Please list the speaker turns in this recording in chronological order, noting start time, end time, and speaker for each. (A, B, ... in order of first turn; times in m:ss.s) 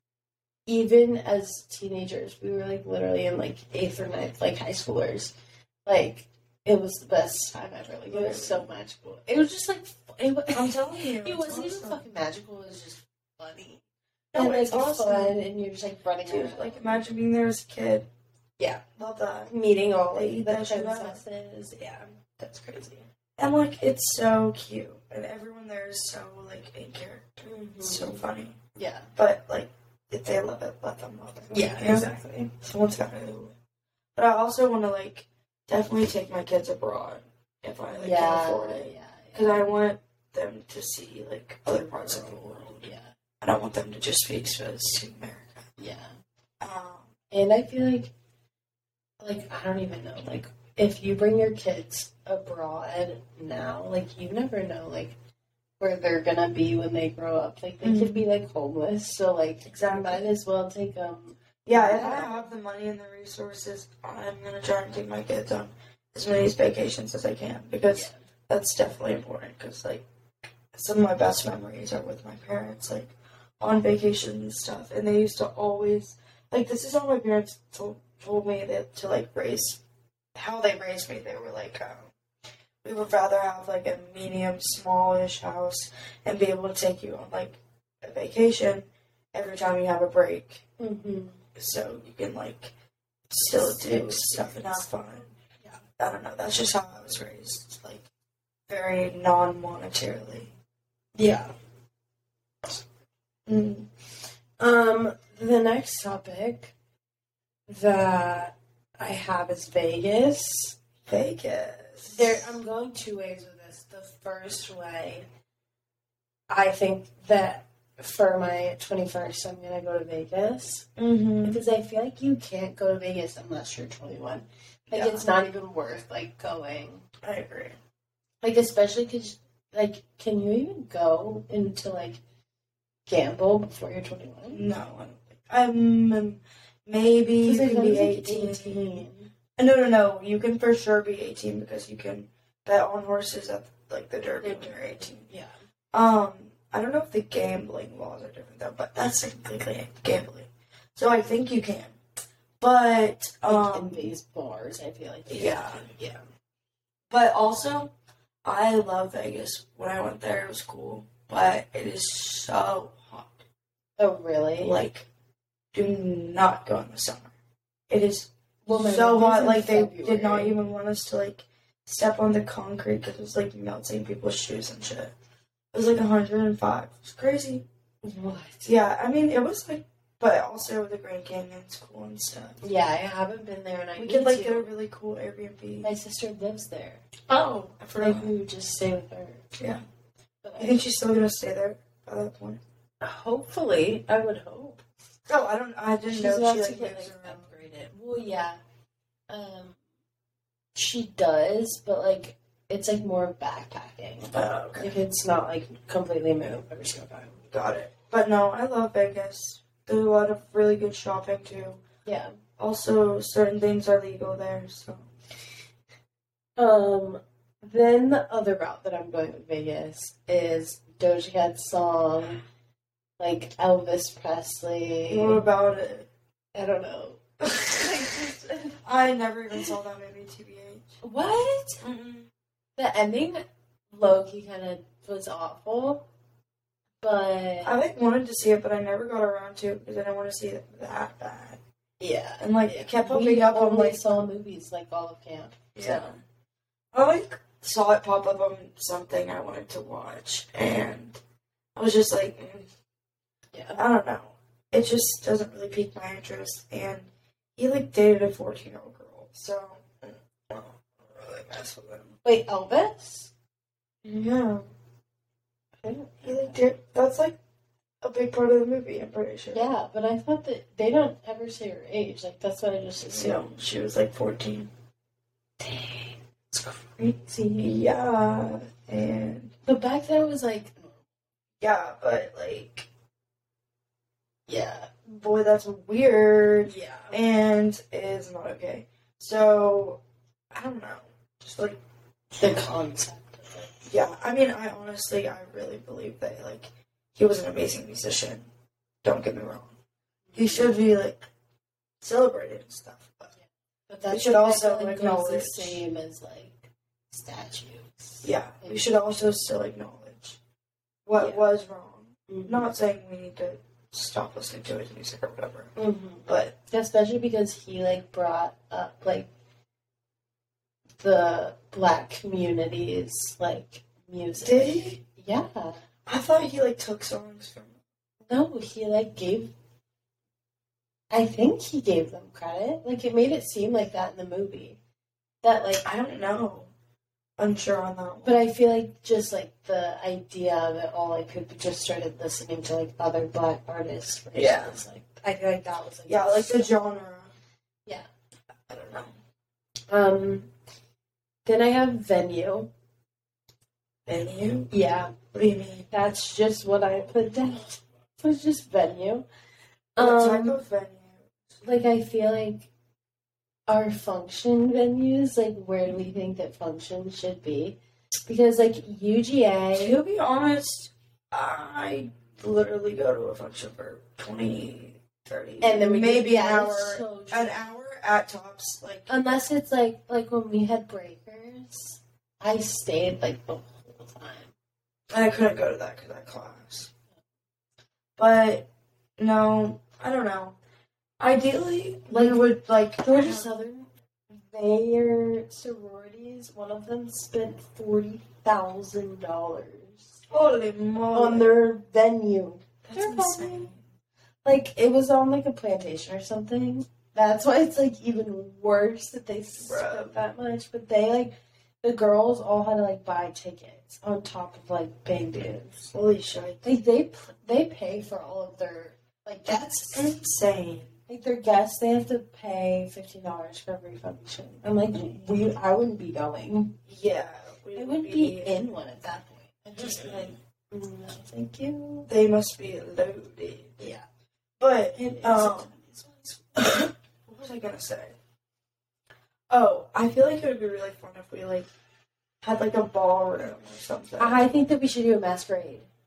0:00.7-0:05.3 A
0:05.8-0:13.8 A
0:08.1-0:08.7 B
0:10.5-0:12.0 B
0:14.3-0:15.4 B
0:14.3-0:17.0 A
0:16.2-0:18.1 B
0:19.0-0:19.5 B
0:19.5-0:22.1 A
0:20.1-0:21.2 B
0:22.4-0:28.6 B
0:27.4-0:29.1 A
0:29.2-0:33.5 B
0:31.5-0:32.3 A
0:34.2-0:42.9 B
0:37.9-0:39.7 A
0:41.7-0:43.1 A
0:43.4-0:45.7 B
0:45.8-0:46.1 A
0:46.6-0:47.1 B
0:47.3-0:48.1 A
0:49.2-0:55.1 A
0:55.8-1:02.5 A
0:57.8-0:58.2 B
0:59.6-1:00.3 B
1:01.6-1:10.0 B
1:07.9-1:08.2 A
1:10.7-1:19.8 B
1:20.3-1:22.1 B
1:22.8-1:30.6 B
1:30.8-1:31.4 A
1:31.6-1:32.7 B
1:33.3-1:35.3 B
1:33.4-1:34.8 A
1:36.0-1:38.0 B
1:38.7-1:40.5 B
1:41.2-1:41.5 A
1:43.5-1:43.9 B
1:44.6-1:46.7 A
1:47.7-1:50.8 A
1:51.0-1:52.5 B
1:52.0-1:55.2 A
1:56.5-2:00.9 A
2:01.0-2:01.6 B
2:01.4-2:07.0 A
2:04.9-2:05.3 B
2:07.2-2:07.8 B
2:08.4-2:12.2 A
2:13.1-2:14.7 A
2:14.5-2:19.0 B
2:17.4-2:19.3 A
2:19.6-2:25.2 B
2:24.4-2:25.5 A
2:25.9-2:32.0 B
2:32.6-2:34.1 B
2:33.4-2:36.2 A
2:35.3-2:35.8 B
2:37.1-2:37.9 B
2:38.4-2:43.4 B
2:44.0-2:44.8 A
2:44.6-2:45.1 B
2:45.7-2:47.3 B
2:47.9-2:55.1 B
2:48.6-2:50.6 A
2:55.7-2:57.6 B
2:58.0-2:58.7 A
2:58.6-3:02.6 B
3:02.6-3:04.7 A
3:04.0-3:05.9 B
3:05.8-3:07.0 A
3:07.3-3:08.3 B
3:08.0-3:09.4 A
3:09.6-3:09.8 B
3:10.4-3:10.8 A
3:10.6-3:12.6 B
3:13.0-3:14.8 A
3:15.3-3:17.5 B
3:16.1-3:18.6 A
3:19.3-3:19.8 A
3:20.7-3:27.4 A
3:24.3-3:24.9 B
3:27.5-3:31.8 B
3:32.0-3:32.4 A
3:32.6-3:35.1 B
3:36.6-3:42.4 A
3:43.2-3:45.4 A
3:45.1-3:46.1 B
3:46.5-3:48.8 A
3:47.5-3:47.8 B
3:48.8-3:51.0 B
3:51.0-3:51.8 A
3:51.8-3:52.3 B
3:52.8-3:56.0 A
3:57.0-3:57.8 A
3:57.6-4:01.6 B
4:02.0-4:06.1 A
4:02.4-4:04.0 B
4:05.7-4:06.2 B
4:06.9-4:11.2 B
4:11.8-4:12.7 B
4:13.5-4:13.8 A
4:13.8-4:22.2 B
4:22.2-4:23.3 A
4:24.0-4:24.6 B
4:25.8-4:26.6 A
4:26.2-4:27.4 B
4:28.0-4:29.7 B
4:29.5-4:33.5 A
4:33.0-4:34.7 B
4:35.6-4:37.7 A
4:36.6-4:37.0 B
4:37.5-4:39.5 B
4:39.6-4:41.0 A
4:41.6-4:42.9 B
4:44.5-4:45.0 A
4:45.1-4:51.8 B
4:46.6-4:47.2 A
4:52.4-4:53.7 A
4:53.9-4:58.5 B
4:59.0-4:59.7 B
5:00.3-5:00.8 A
5:00.3-5:01.2 B
5:02.0-5:03.3 B
5:03.4-5:08.9 A
5:04.1-5:05.8 B
5:08.2-5:10.4 B
5:11.0-5:15.7 B
5:11.1-5:11.4 A
5:12.3-5:12.7 A
5:15.8-5:19.3 A
5:16.3-5:16.5 B
5:21.0-5:25.8 A
5:24.4-5:25.0 B
5:26.0-5:27.8 B
5:28.3-5:29.5 A
5:31.1-5:34.8 A
5:35.4-5:35.8 A
5:35.8-5:36.7 B
5:37.4-5:38.5 B
5:38.2-5:46.7 A
5:44.3-5:44.8 B
5:46.1-5:47.3 B
5:48.7-5:49.2 B
5:49.9-5:50.5 A
5:51.4-5:52.7 A
5:54.1-5:54.7 B
5:54.7-5:55.1 A
5:55.3-5:55.9 B
5:55.9-5:59.2 A
6:00.0-6:00.6 A
6:00.0-6:01.6 B
6:01.6-6:02.7 A
6:03.7-6:10.0 A
6:09.7-6:19.1 B
6:15.6-6:17.6 A
6:19.1-6:24.5 A
6:25.1-6:26.9 B
6:28.2-6:30.6 B
6:31.2-6:33.5 B
6:32.1-6:32.4 A
6:33.0-6:40.2 A
6:40.3-6:41.5 B
6:41.1-6:43.7 A
6:42.8-6:43.8 B
6:44.4-6:55.9 A
6:49.6-6:50.1 B
6:55.9-6:56.7 B
6:56.6-7:00.1 A
6:59.4-7:00.9 B
7:01.1-7:06.8 A
7:06.9-7:08.6 B
7:07.7-7:12.1 A
7:09.8-7:10.3 B
7:12.1-7:13.9 B
7:13.8-7:14.0 A
7:14.6-7:15.7 B
7:14.9-7:16.8 A
7:16.6-7:18.2 B
7:19.5-7:21.7 B
7:22.4-7:24.5 B
7:24.2-7:25.9 A